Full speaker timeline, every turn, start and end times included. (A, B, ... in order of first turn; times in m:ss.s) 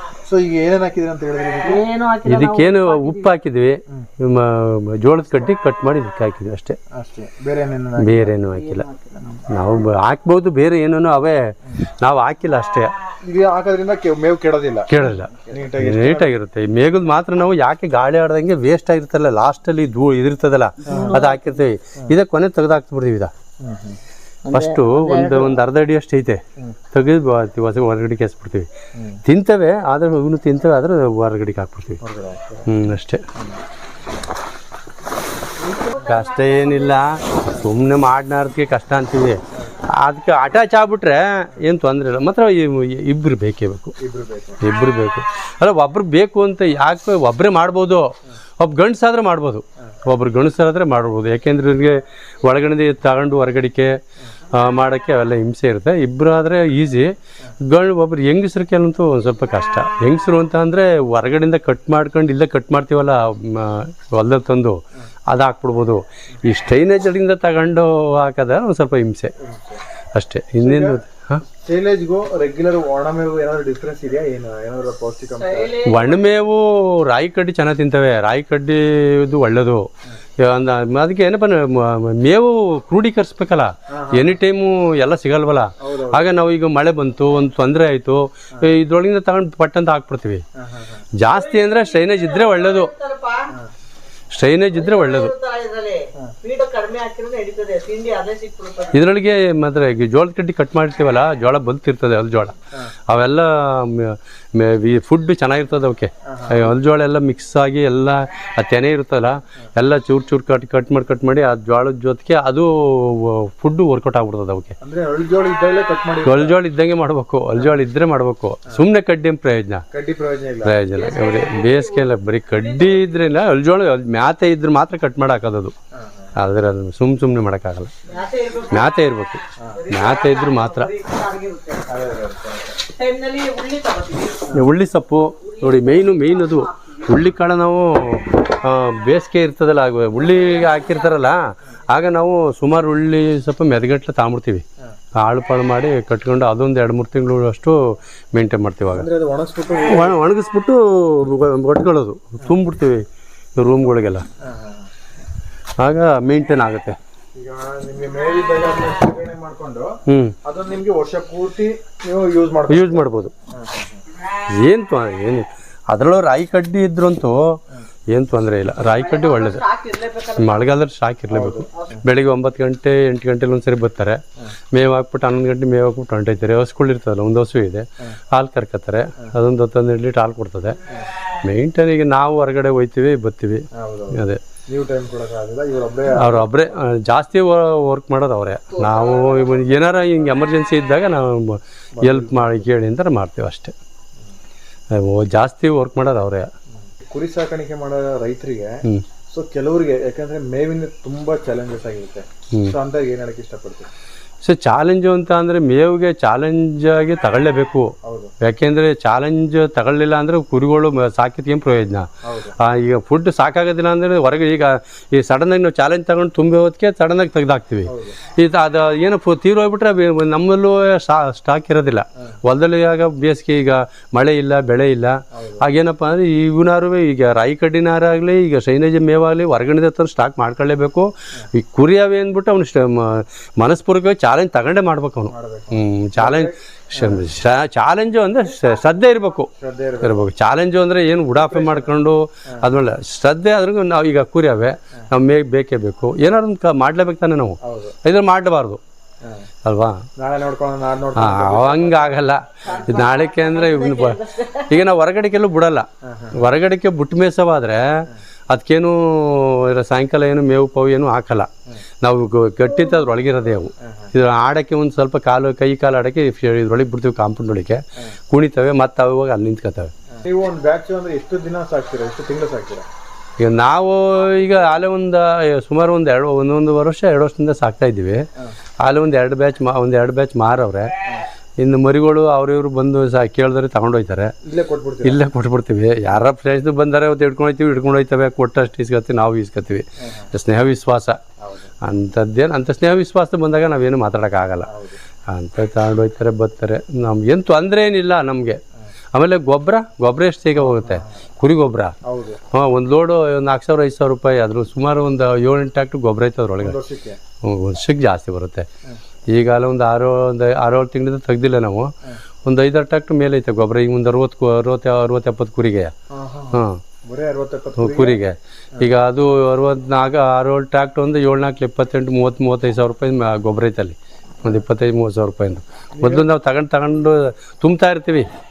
0:00.2-0:01.8 A
0:01.6-0:03.3 B
0:02.2-0:06.8 C
0:06.9-0:08.4 A
0:08.0-0:08.9 C
0:08.5-0:09.3 B
0:09.2-0:09.4 A
0:09.5-0:12.9 C
0:13.2-0:16.3 A
0:14.9-0:23.3 C
0:20.8-0:21.4 B
0:20.9-0:21.2 A
0:23.6-0:24.0 A
0:24.4-0:25.6 B
0:24.5-0:28.7 C
0:28.9-0:29.2 A
0:29.2-0:32.0 C
0:32.0-0:32.6 A
0:32.6-0:33.2 C
0:35.6-0:37.1 B
0:36.0-0:44.0 C
0:44.0-0:44.6 A
0:44.6-1:09.3 C
1:09.4-1:09.8 A
1:10.1-1:11.4 C
1:10.6-1:15.8 A
1:15.5-1:16.3 B
1:15.8-1:30.4 C
1:23.9-1:24.4 A
1:25.8-1:26.2 A
1:30.6-1:31.1 A
1:31.2-1:32.9 C
1:31.3-1:33.6 B
1:34.3-1:35.3 C
1:34.7-1:39.1 B
1:38.9-1:54.7 C
1:46.2-1:46.8 A
1:54.8-1:56.6 A
1:56.2-1:59.8 C
1:59.9-2:00.8 A
2:00.6-2:05.7 C
2:00.9-2:03.0 B
2:05.9-2:06.3 A
2:06.4-2:07.9 C
2:08.0-2:08.9 B
2:08.6-2:10.9 C
2:09.6-2:09.9 A
2:09.7-2:11.9 B
2:11.9-2:12.8 A
2:12.9-2:14.6 B
2:14.5-2:24.6 C
2:15.4-2:16.7 B
2:25.2-2:29.1 C
2:28.9-2:30.2 A
2:29.9-2:33.0 C
2:33.6-2:34.2 C
2:34.4-2:34.9 A
2:35.8-2:37.0 C
2:37.3-2:44.0 A
2:40.1-2:40.4 C
2:42.7-2:43.3 C
2:44.6-2:47.6 C
2:48.1-3:00.8 C
2:49.0-2:50.6 B
2:51.3-2:51.9 A
3:01.4-3:04.4 C
3:03.7-3:06.6 A
3:06.1-3:13.7 C
3:12.0-3:12.7 A
3:14.9-3:16.5 C
3:16.9-3:23.9 A
3:24.4-3:59.5 C
3:28.0-3:28.3 A
3:32.2-3:32.6 A
3:37.8-3:38.2 A
3:45.3-3:45.7 A
3:55.3-3:57.2 A
3:59.6-4:00.3 A
4:00.0-4:08.8 C
4:01.4-4:01.9 A
4:07.6-4:08.0 A
4:09.2-4:09.5 A
4:09.6-4:10.1 C
4:10.2-4:12.7 A
4:11.2-4:21.5 C
4:12.6-4:14.8 B
4:16.0-4:16.4 A
4:22.0-4:29.9 C
4:30.2-4:32.8 A
4:33.4-4:38.3 C
4:38.8-4:41.0 C
4:41.6-4:44.3 C
4:44.4-4:45.2 A
4:45.0-4:51.2 C
4:50.0-4:50.3 A
4:51.4-4:51.7 A
4:51.8-4:54.7 C
4:54.7-4:55.0 A
4:55.2-4:58.6 C
4:59.1-5:01.9 C
5:00.6-5:01.1 A
5:02.0-5:02.4 A
5:02.5-5:06.8 C
5:06.6-5:07.2 A
5:07.4-5:08.7 C
5:09.3-5:11.9 C
5:12.4-5:15.9 C
5:16.1-5:18.2 A
5:16.5-5:16.8 C
5:17.8-5:28.3 C
5:25.9-5:26.3 A